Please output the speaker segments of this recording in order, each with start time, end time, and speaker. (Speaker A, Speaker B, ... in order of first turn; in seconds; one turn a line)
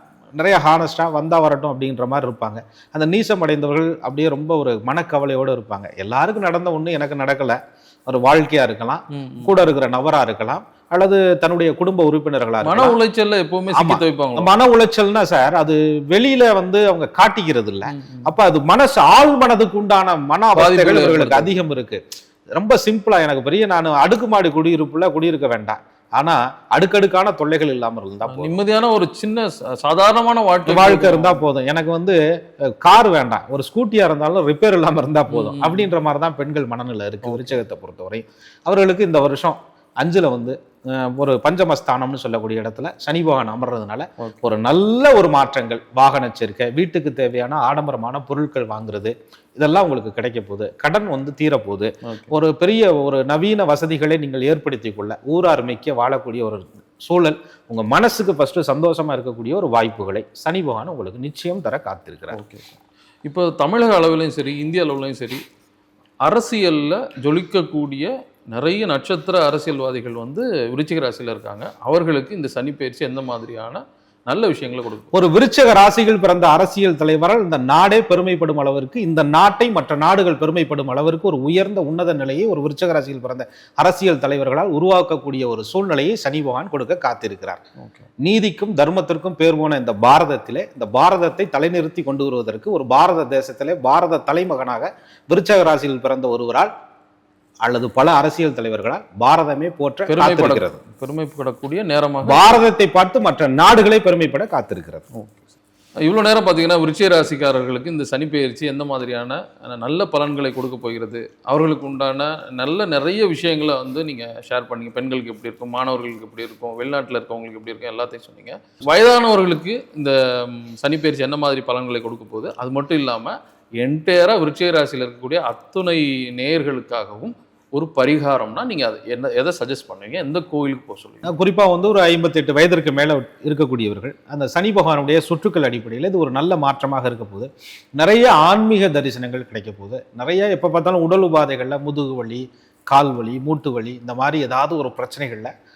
Speaker A: 0.4-7.6
Speaker A: 8.1-13.0
Speaker B: 9.1-9.5
Speaker B: 12.6-14.5
Speaker A: 13.8-22.0
Speaker B: 17.9-18.3
Speaker B: 20.6-21.5
Speaker A: 22.6-28.5
Speaker B: 28.3-31.4
Speaker A: 30.7-32.2
Speaker A: 32.8-62.4
Speaker B: 35.3-35.9
Speaker B: 37.2-37.6
Speaker B: 52.1-52.3
Speaker B: 62.3-65.4
Speaker B: 66.2-75.1
Speaker A: 75.1-87.6
Speaker B: 87.8-88.1
Speaker A: 88.2-96.7
Speaker A: 97.6-100.8
Speaker B: 100.1-102.4
Speaker A: 102.2-105.1
Speaker B: 105.2-105.4
Speaker B: 106.0-131.3
Speaker A: 131.3-145.5